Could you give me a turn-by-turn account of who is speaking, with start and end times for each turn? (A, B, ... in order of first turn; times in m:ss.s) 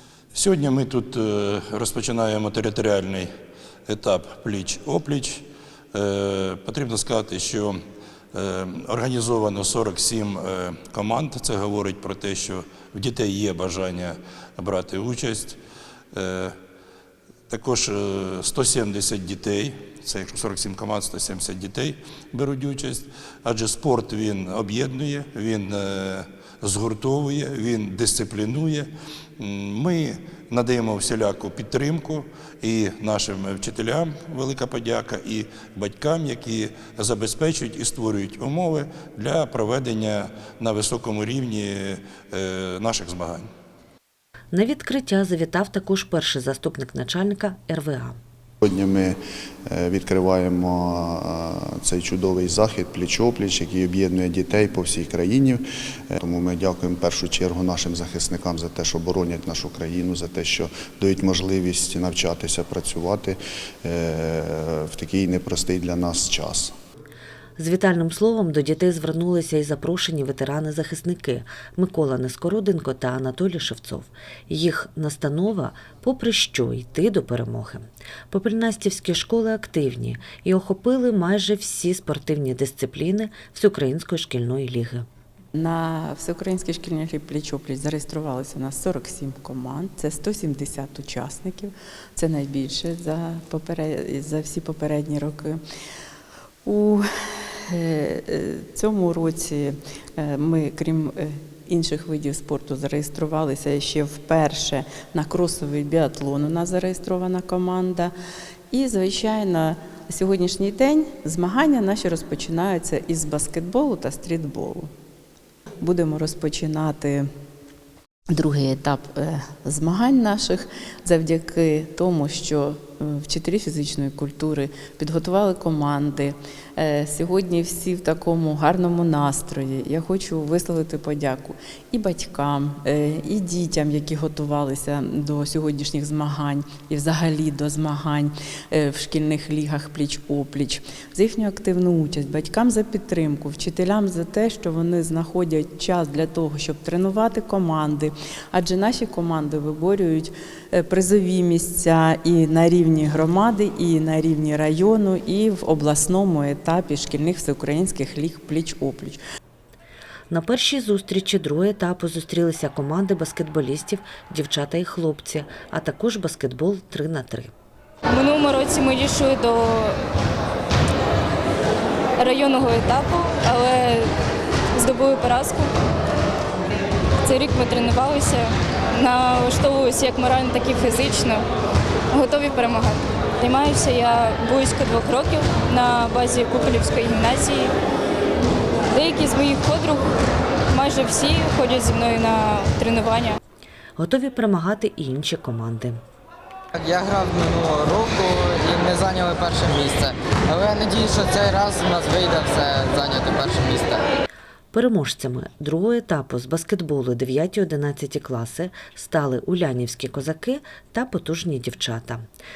0:00.3-0:03.3 A
0:03.9-0:07.8 A
0:08.3-0:15.6 A
0:16.1-0:16.6 A
0:17.5-0:43.5 A
0:44.5-0:48.2 B
0:48.6-1:06.7 C
1:07.6-1:25.1 B
1:25.6-1:35.6 D
1:36.6-1:37.0 D
1:37.7-1:48.1 D
1:48.7-1:54.9 D
1:55.8-1:57.3 D
1:58.3-2:39.2 D
2:40.3-2:47.5 B
2:48.1-2:50.0 E
2:52.2-2:54.1 E
2:54.8-2:55.7 E
2:57.2-3:01.4 E
3:02.1-3:07.7 E
3:08.9-3:10.0 E
3:10.7-3:13.4 E
3:14.0-3:16.0 B
3:16.8-3:24.0 F
3:24.7-3:32.3 B